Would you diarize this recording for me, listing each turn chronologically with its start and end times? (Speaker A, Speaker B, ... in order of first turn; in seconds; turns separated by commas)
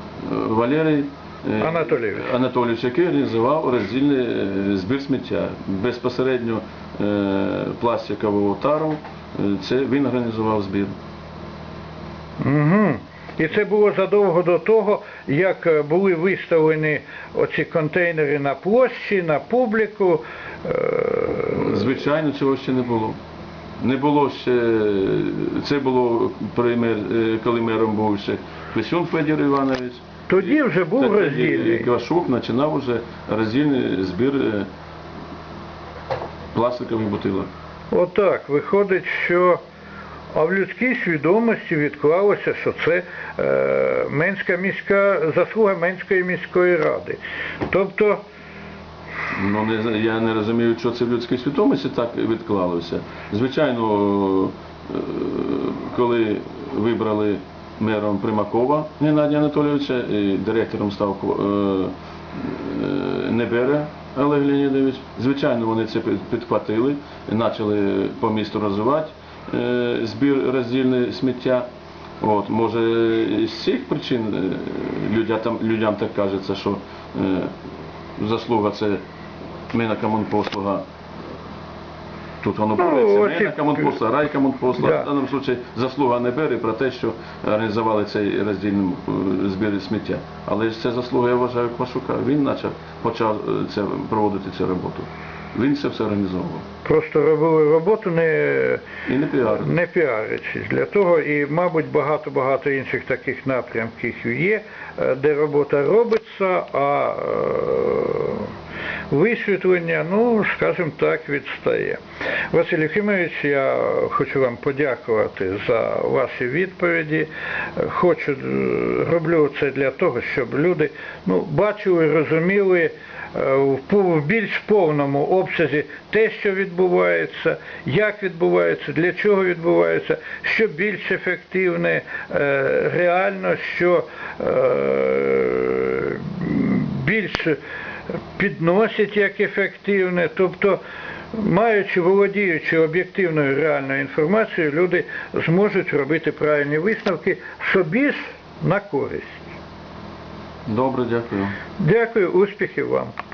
Speaker A: 0.2-10.9, Speaker B: 1.6-2.3, Speaker B: 12.4-21.8, Speaker A: 21.5-23.2, Speaker A: 23.8-34.7, Speaker B: 30.3-31.9, Speaker A: 36.5-37.5, Speaker B: 37.9-39.6, Speaker B: 40.3-48.2, Speaker A: 49.3-71.7, Speaker A: 72.2-77.5, Speaker A: 78.2-79.0, Speaker A: 79.7-80.8, Speaker A: 82.4-96.6, Speaker B: 82.8-84.0, Speaker B: 84.8-85.1, Speaker B: 96.8-98.9, Speaker A: 99.0-99.7, Speaker B: 99.5-108.5, Speaker B: 109.1-112.0, Speaker B: 112.5-137.6, Speaker B: 138.3-140.8, Speaker B: 141.3-149.4, Speaker A: 150.7-151.5, Speaker B: 151.8-153.1